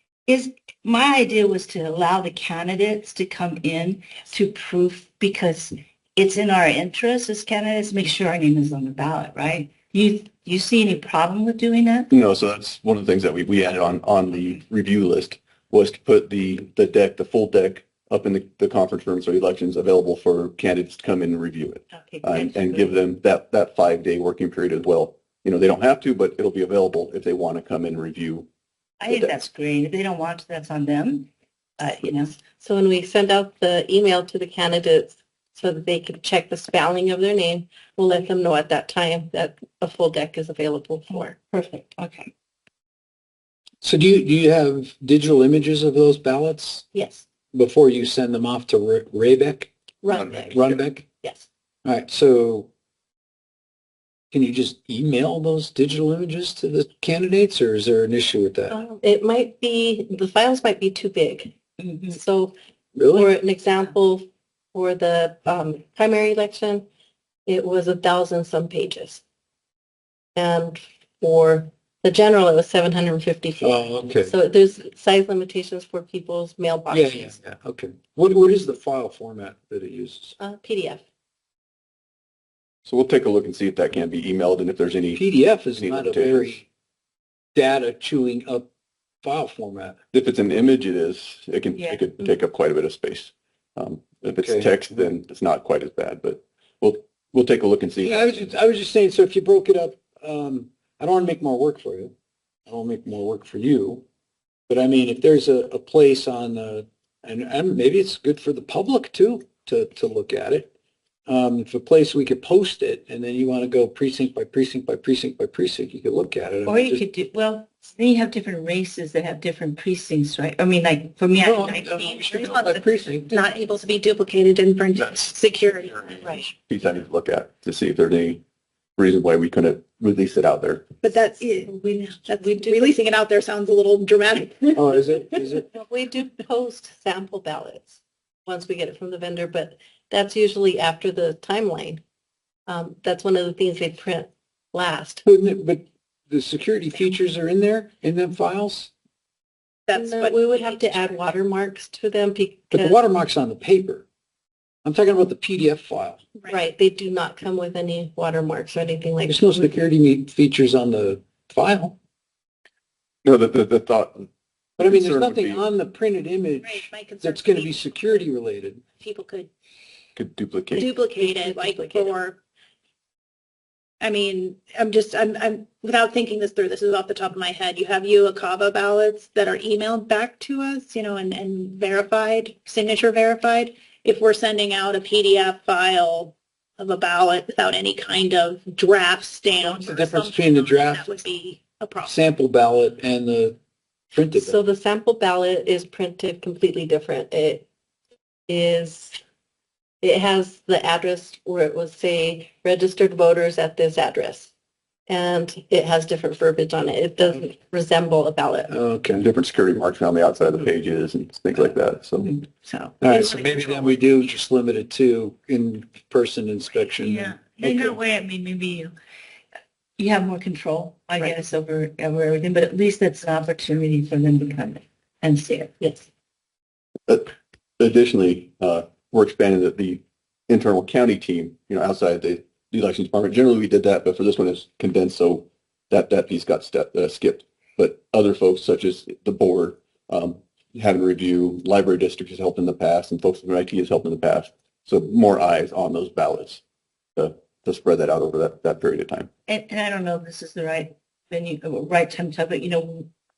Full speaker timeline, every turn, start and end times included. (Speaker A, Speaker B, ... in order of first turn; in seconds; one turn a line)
Speaker A: 0.3-12.1
Speaker B: 12.1-28.5
Speaker A: 21.9-23.0
Speaker A: 29.0-31.3
Speaker A: 31.8-32.4
Speaker C: 32.6-41.8
Speaker A: 41.1-42.3
Speaker D: 43.8-46.8
Speaker C: 46.9-47.2
Speaker D: 47.5-49.7
Speaker C: 50.0-50.5
Speaker B: 50.1-50.8
Speaker D: 50.5-51.0
Speaker D: 51.8-52.7
Speaker D: 54.3-58.8
Speaker C: 58.7-61.5
Speaker A: 61.8-62.2
Speaker C: 62.1-62.5
Speaker D: 63.0-63.3
Speaker C: 63.1-66.8
Speaker C: 67.5-69.2
Speaker C: 70.3-77.4
Speaker D: 73.6-74.3
Speaker D: 76.9-80.3
Speaker C: 80.4-81.0
Speaker B: 82.8-85.2
Speaker D: 85.1-86.7
Speaker B: 85.7-86.6
Speaker D: 87.5-88.7
Speaker D: 89.2-90.0
Speaker B: 90.1-98.5
Speaker A: 91.7-92.0
Speaker D: 94.2-95.1
Speaker D: 98.0-102.1
Speaker D: 102.7-104.0
Speaker D: 104.7-110.7
Speaker D: 111.3-117.0
Speaker A: 116.7-122.8
Speaker D: 121.4-123.3
Speaker E: 122.3-126.3
Speaker A: 126.2-126.5
Speaker B: 126.7-128.4
Speaker B: 129.0-130.8
Speaker E: 131.0-134.8
Speaker C: 132.4-132.9
Speaker D: 134.8-135.7
Speaker C: 135.7-142.0
Speaker C: 142.7-145.2
Speaker D: 145.2-148.9
Speaker E: 149.9-151.2
Speaker C: 149.9-153.0
Speaker D: 152.7-154.1
Speaker D: 154.8-156.2
Speaker E: 156.4-156.7
Speaker C: 156.5-159.8
Speaker D: 159.3-161.9
Speaker B: 163.2-165.6
Speaker D: 164.8-168.8
Speaker E: 166.6-168.2
Speaker E: 169.0-169.5
Speaker B: 170.2-170.8
Speaker E: 170.7-172.4
Speaker C: 170.8-172.2
Speaker E: 174.0-192.1
Speaker D: 189.7-191.1
Speaker D: 192.0-193.6
Speaker D: 194.1-194.6
Speaker C: 194.3-197.7
Speaker C: 198.5-199.2
Speaker C: 200.0-204.5
Speaker C: 205.1-208.7
Speaker D: 208.7-209.2
Speaker B: 209.1-212.3
Speaker A: 212.3-212.9
Speaker D: 213.0-218.0
Speaker A: 217.0-218.9
Speaker A: 220.0-225.7
Speaker B: 227.1-246.6
Speaker B: 247.2-249.3
Speaker A: 249.5-253.1